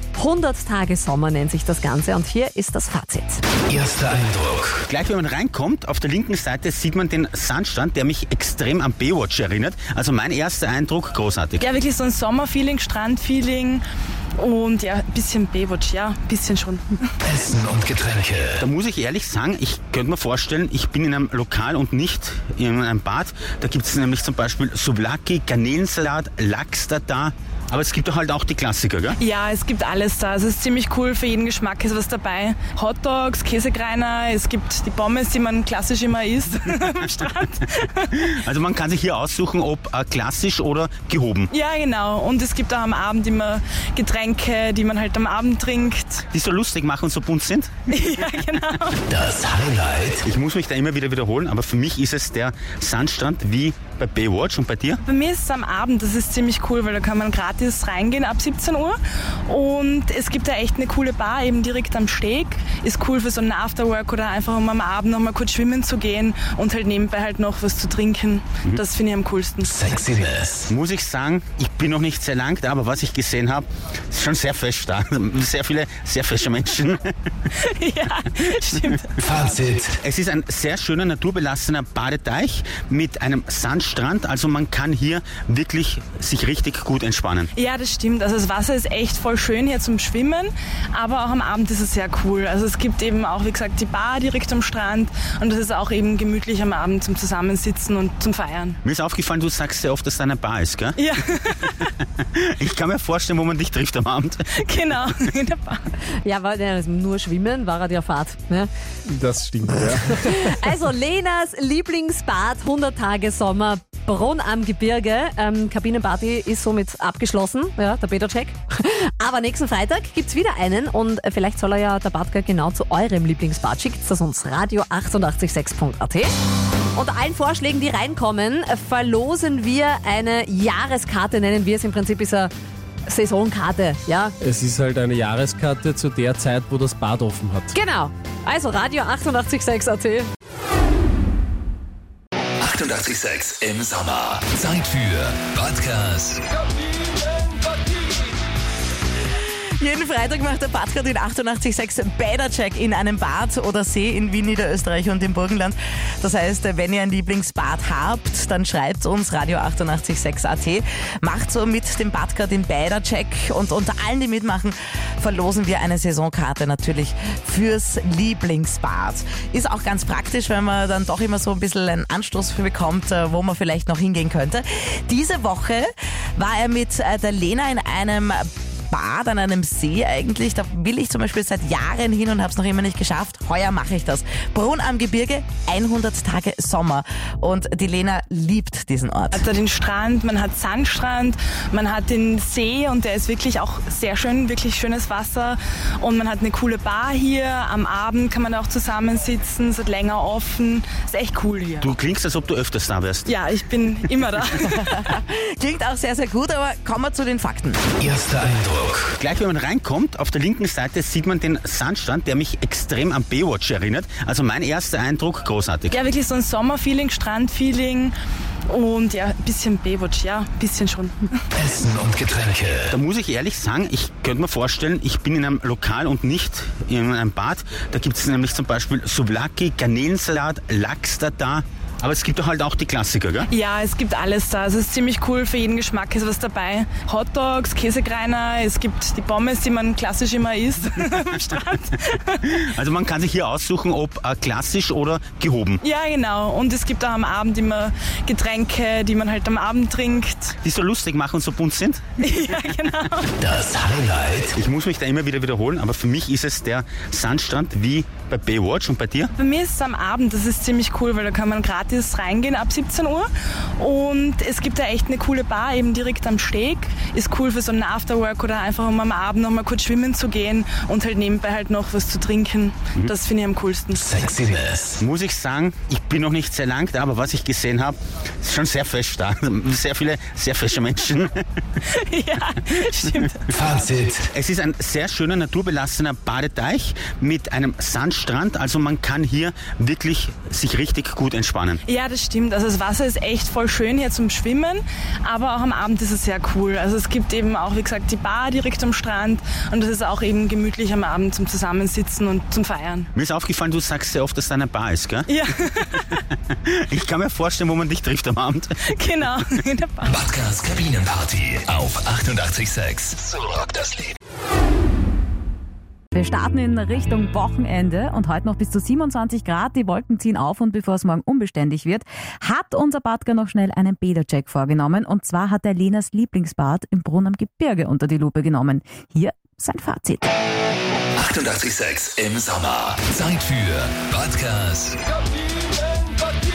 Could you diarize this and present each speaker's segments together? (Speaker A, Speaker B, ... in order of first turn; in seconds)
Speaker A: 0.1-3.4, 106.2-108.7, 109.8-126.3, 126.9-132.5, 133.1-134.3, 137.7-140.3
Speaker B: 3.7-4.7, 17.2-18.6, 49.1-50.2, 69.9-70.4, 79.4-79.7, 142.6-146.4, 208.0-209.0, 221.6-222.9, 253.4-254.5, 274.3-274.7, 310.1-314.1, 331.1-335.0
Speaker C: 4.8-11.6, 18.6-29.1, 36.9-37.3, 38.1-41.5, 46.3-47.7, 50.2-55.0, 70.5-77.1, 79.9-87.5, 98.8-101.0, 101.8-104.5, 201.8-203.3, 209.1-215.9, 222.9-233.5, 242.5-245.8, 250.6-252.0, 254.5-259.3, 274.8-281.4, 284.0-291.8, 303.1-305.3, 306.5-308.7
Speaker D: 11.6-13.8, 14.4-17.1, 29.2-38.3, 41.5-46.2, 47.9-49.0, 55.0-70.3, 77.6-79.4, 87.5-98.8, 101.0-101.9, 104.6-105.8, 189.3-201.9, 203.2-205.0, 215.9-218.1, 218.7-221.4, 233.5-242.7, 245.8-250.6, 252.2-253.3, 259.3-274.6, 281.9-283.7, 291.9-303.1, 305.3-306.2, 308.9-310.2
Speaker E: 109.1-110.3, 134.4-137.7
Speaker F: 149.8-189.4, 204.7-207.8
Speaker G: 316.1-330.3